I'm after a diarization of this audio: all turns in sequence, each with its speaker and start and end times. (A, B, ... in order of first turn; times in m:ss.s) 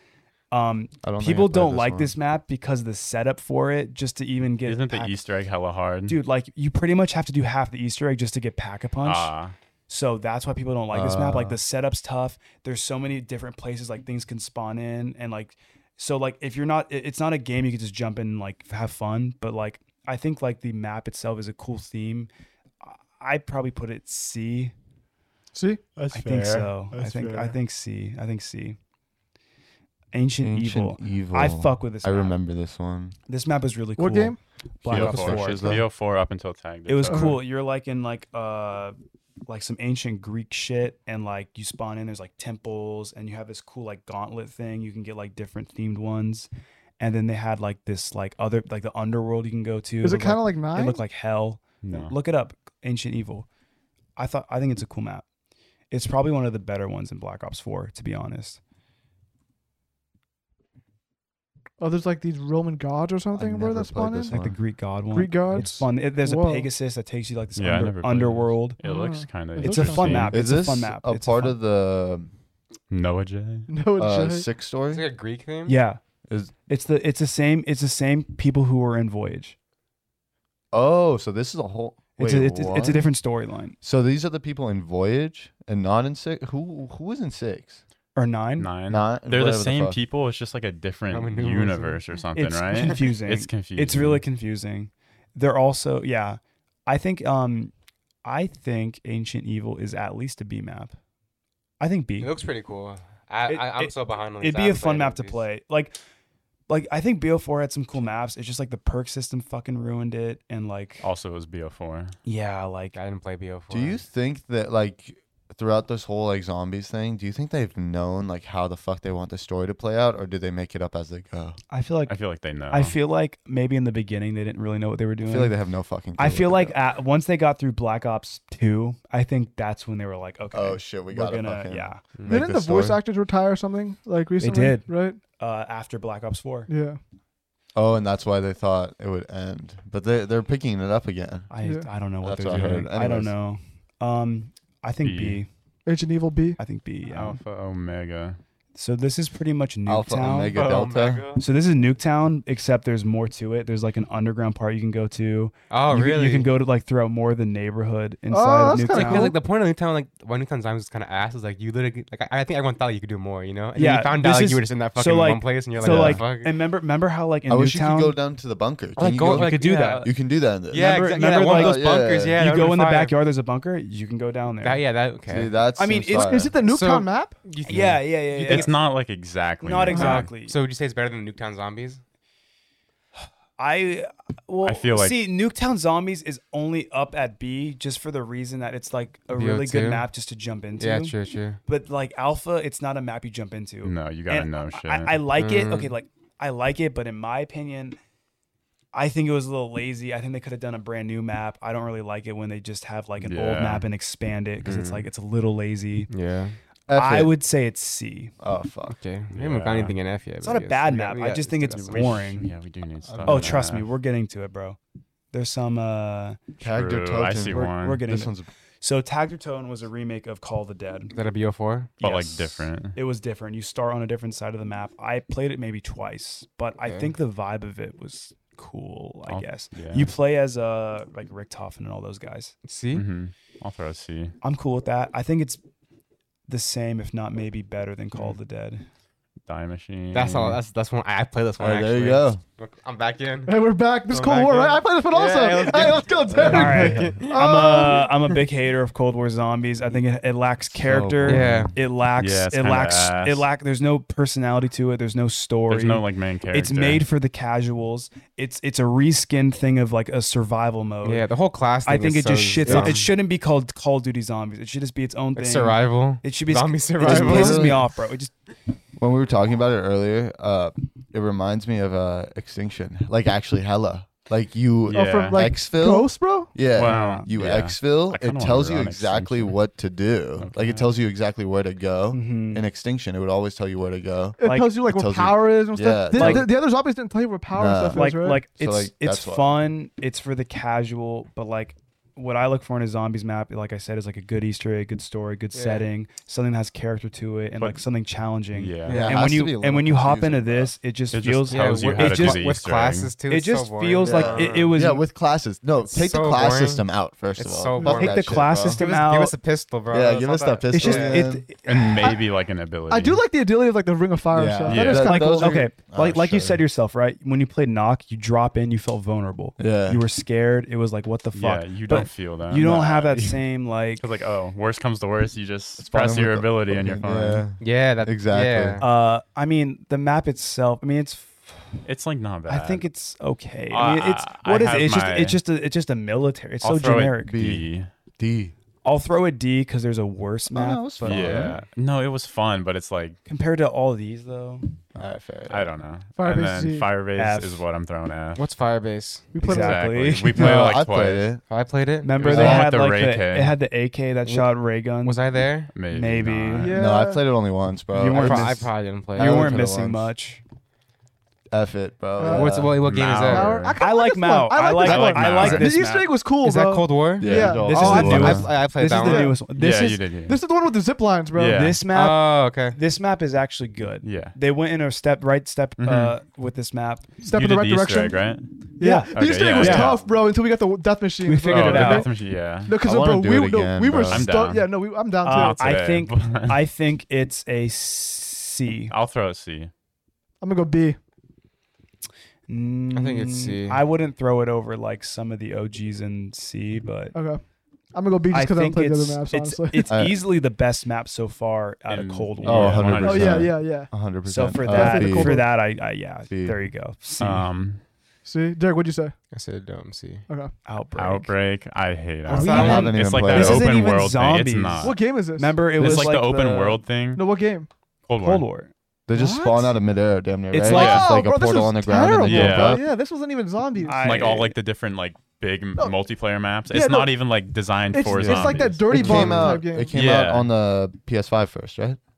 0:00.5-0:05.2 A
0:01.0-0:02.2 B
0:04.6-0:06.2 C
0:06.1-0:09.3 A
0:09.0-0:09.6 C
0:09.9-0:22.3 A
0:10.9-0:11.6 B
0:22.8-0:24.7 A
0:25.5-0:25.8 D
0:26.0-0:27.5 C
0:26.1-0:28.8 A
0:30.1-0:32.4 A
0:30.4-0:33.2 B
0:33.3-0:35.8 A
0:34.0-0:34.4 D
0:34.9-0:35.9 B
0:34.9-0:37.4 C
0:36.9-0:39.0 A
0:37.1-0:37.4 D
0:39.5-0:53.5 A
0:50.0-0:51.0 D
0:51.8-0:52.2 C
0:54.2-0:55.2 A
0:55.9-0:58.6 A
1:01.8-1:04.3 D
1:03.3-1:04.6 B
1:04.3-1:08.8 A
1:05.1-1:06.7 D
1:07.6-1:10.4 C
1:08.8-1:10.3 D
1:09.6-1:11.6 A
1:10.3-1:12.3 B
1:12.9-1:13.7 C
1:13.7-1:14.5 D
1:14.0-1:15.0 B
1:14.9-1:15.8 E
1:15.6-1:16.0 A
1:16.3-1:16.5 B
1:16.7-1:19.6 A
1:20.7-1:23.0 B
1:22.2-1:23.8 A
1:23.8-1:27.8 B
1:28.2-1:28.7 A
1:28.6-1:34.2 C
1:28.9-1:30.0 B
1:31.1-1:32.0 E
1:32.4-1:37.7 A
1:38.2-1:41.0 A
1:41.8-1:42.3 A
1:42.2-1:45.4 E
1:43.5-1:46.0 A
1:46.7-1:51.1 A
1:51.0-1:52.2 C
1:52.2-1:53.0 A
1:52.9-1:54.0 E
1:53.7-2:01.6 B
2:01.7-2:02.2 A
2:02.1-2:03.0 C
2:02.7-2:05.5 A
2:05.2-2:06.8 B
2:06.2-2:12.0 A
2:10.5-2:13.0 B
2:12.3-2:15.2 D
2:14.4-2:16.7 A
2:16.7-2:17.0 D
2:17.8-2:21.5 B
2:21.5-2:25.5 A
2:21.6-2:21.9 D
2:22.2-2:23.3 B
2:25.0-2:25.4 C
2:25.9-2:26.6 D
2:26.6-2:27.4 A
2:27.1-2:28.4 C
2:28.8-2:30.6 A
2:29.9-2:31.2 B
2:30.5-2:31.4 E
2:31.4-2:39.4 A
2:35.7-2:36.5 E
2:38.3-2:39.4 D
2:38.8-2:46.6 E
2:43.8-2:48.2 A
2:45.8-2:46.2 B
2:47.5-2:52.4 B
2:49.0-2:50.1 E
2:49.2-2:50.1 A
2:50.7-2:53.2 E
2:50.8-2:54.9 A
2:54.6-2:55.6 E
2:55.3-2:56.5 B
2:55.8-2:56.4 A
2:56.1-2:57.4 D
2:56.6-2:58.7 E
2:57.6-2:58.7 A
2:58.4-3:00.3 C
2:59.6-3:00.6 A
2:59.9-3:02.0 E
2:59.9-3:00.2 D
3:03.6-3:11.1 A
3:04.6-3:05.2 C
3:09.3-3:10.1 E
3:10.8-3:11.6 E
3:11.6-3:18.0 A
3:13.8-3:15.2 C
3:15.4-3:15.9 E
3:18.9-3:26.1 A
3:23.2-3:23.9 C
3:24.6-3:25.1 E
3:26.1-3:26.6 E
3:26.9-3:27.3 B
3:26.9-3:28.3 A
3:28.4-3:29.0 B
3:28.9-3:32.2 E
3:29.3-3:30.0 C
3:30.4-3:32.5 A
3:31.9-3:33.9 C
3:33.0-3:33.7 B
3:33.3-3:34.8 A
3:35.3-3:36.4 A
3:36.6-3:38.5 B
3:36.6-3:38.0 C
3:37.5-3:41.1 A
3:41.1-3:42.0 E
3:42.0-3:52.6 A
3:42.0-3:43.0 C
3:46.8-3:47.1 E
3:49.3-3:50.1 C
3:52.6-3:53.0 E
3:52.9-3:54.4 C
3:54.4-3:55.6 A
3:56.5-3:58.9 A
3:59.5-4:00.6 C
4:00.1-4:03.6 E
4:01.6-4:02.4 B
4:03.5-4:08.1 D
4:04.1-4:07.7 E
4:06.3-4:07.0 B
4:06.4-4:21.3 A
4:10.7-4:11.7 B
4:11.2-4:11.7 E
4:12.2-4:13.5 C
4:15.7-4:17.0 C
4:21.0-4:23.1 E
4:21.8-4:28.4 A
4:22.6-4:23.0 B
4:25.4-4:27.8 E
4:27.0-4:27.9 B
4:29.0-4:46.5 B
4:34.9-4:35.5 C
4:34.9-4:36.5 D
4:36.8-4:39.6 C
4:36.8-4:37.3 A
4:40.4-4:40.9 C
4:42.1-4:42.6 A
4:44.4-4:48.4 D
4:44.4-4:44.7 A
4:46.1-4:46.5 A
4:47.5-4:49.6 B
4:47.9-5:02.6 A
4:55.5-4:55.9 E
4:57.6-4:57.8 C
4:58.5-4:59.1 C
4:58.8-4:59.3 E
4:58.9-5:00.7 B
5:01.1-5:03.1 C
5:01.5-5:04.8 E
5:03.3-5:05.0 A
5:04.0-5:08.8 B
5:05.9-5:06.8 E
5:07.4-5:11.2 E
5:07.8-5:08.0 D
5:07.9-5:09.4 A
5:09.9-5:11.5 B
5:10.7-5:11.9 A
5:11.6-5:13.2 C
5:12.9-5:15.6 D
5:14.3-5:16.6 B
5:14.7-5:15.1 C
5:14.9-5:24.0 A
5:19.6-5:20.0 B
5:21.3-5:22.9 C
5:22.6-5:23.4 B
5:24.0-5:27.5 C
5:25.8-5:28.8 B
5:27.6-5:28.9 E
5:28.8-5:31.6 A
5:31.8-5:32.9 C
5:32.5-5:37.4 A
5:33.7-5:35.4 C
5:36.6-5:37.9 C
5:37.3-5:37.7 B
5:38.2-5:38.5 B
5:38.8-5:41.6 A
5:40.5-5:41.6 B
5:41.0-5:43.2 C
5:43.3-5:44.7 A
5:45.0-5:45.7 B
5:45.5-5:48.4 C
5:46.2-5:46.9 D
5:47.2-5:47.6 A
5:48.4-5:49.4 E
5:49.3-5:49.8 D
5:49.4-5:50.7 A
5:49.4-5:51.3 C
5:50.4-5:51.4 B
5:51.5-5:52.5 E
5:52.0-5:55.2 A
5:52.2-5:53.6 C
5:52.3-5:52.7 B
5:54.2-5:55.8 E
5:55.7-5:56.7 C
5:55.8-5:56.8 A
5:56.6-5:57.2 D
5:56.7-6:00.1 B
5:57.9-6:00.4 A
5:58.1-5:59.6 E
6:01.5-6:02.9 B
6:02.2-6:02.5 D
6:02.3-6:03.7 E
6:02.8-6:03.8 C
6:03.3-6:09.4 D
6:03.8-6:06.1 A
6:04.8-6:05.7 C
6:06.4-6:09.4 E
6:07.2-6:08.5 B
6:07.4-6:10.0 A
6:09.5-6:10.4 C
6:10.3-6:11.7 D
6:11.3-6:11.8 C
6:11.5-6:17.1 A
6:11.9-6:12.8 E
6:14.0-6:14.4 C
6:15.8-6:16.2 C
6:17.2-6:22.1 D
6:17.3-6:20.0 C
6:18.8-6:20.0 A
6:21.2-6:22.1 A
6:21.5-6:22.7 C
6:22.6-6:25.8 D
6:22.8-6:24.3 B
6:24.1-6:26.6 C
6:25.2-6:28.9 A
6:28.9-6:29.7 C
6:30.4-6:31.0 D
6:32.5-6:37.2 A
6:32.9-6:33.8 E
6:37.1-6:37.4 D
6:37.9-6:39.9 D
6:38.3-6:43.3 A
6:39.9-6:40.2 B
6:41.9-6:43.5 C
6:42.4-6:45.6 B
6:43.0-6:43.9 D
6:44.3-6:47.5 A
6:44.6-6:45.5 D
6:46.3-6:46.6 B
6:47.2-6:47.8 C
6:48.2-6:49.2 D
6:49.3-6:50.3 E
6:50.3-6:50.5 D
6:50.6-6:51.3 A
6:51.0-6:55.0 C
6:52.3-6:53.0 E
6:52.3-6:56.8 A
6:52.4-6:52.9 D
6:52.4-6:53.8 B
6:54.8-6:56.0 D
6:55.8-6:57.3 C
6:57.1-6:57.7 D
6:58.1-6:58.4 C
6:58.2-6:58.7 A
6:59.1-7:02.8 B
6:59.1-6:59.8 D
7:00.5-7:01.0 A
7:00.6-7:04.4 D
7:00.7-7:01.1 C
7:02.2-7:02.8 C
7:03.8-7:04.6 A
7:04.0-7:10.5 C
7:06.7-7:07.1 D
7:07.9-7:09.9 D
7:08.1-7:12.0 B
7:09.1-7:09.3 E